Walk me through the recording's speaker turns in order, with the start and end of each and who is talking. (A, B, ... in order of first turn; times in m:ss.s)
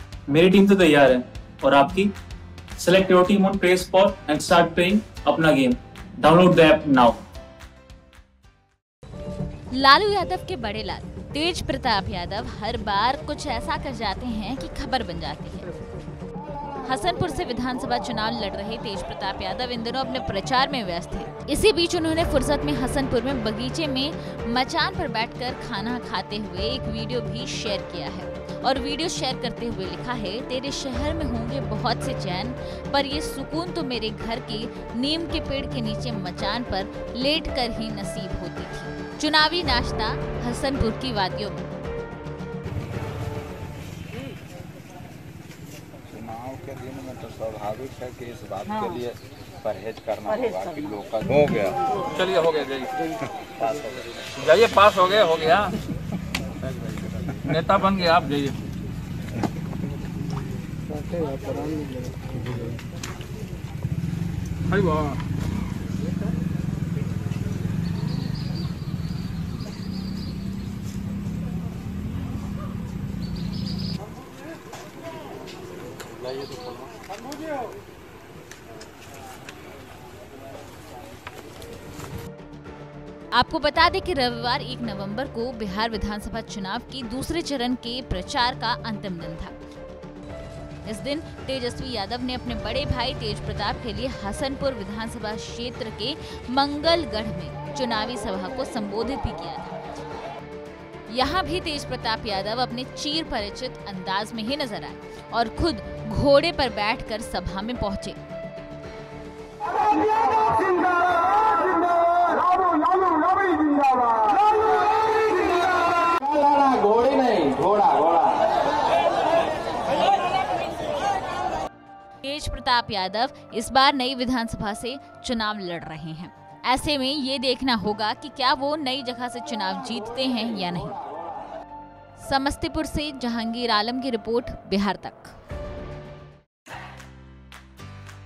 0:00.3-0:02.1 A
0:02.8-0:07.2 A
0:09.7-0:15.6 B
0:16.8-0:41.6 B
0:46.1-0:52.0 C
0:52.2-0:52.9 D
0:53.4-0:54.2 C
0:54.4-0:55.7 D
0:57.6-0:58.5 D
1:04.7-1:05.2 D
1:23.3-1:29.5 B
1:30.8-1:39.8 B
1:41.1-1:48.2 B
1:56.8-1:57.6 C
2:02.2-2:11.0 B
2:12.2-2:15.3 B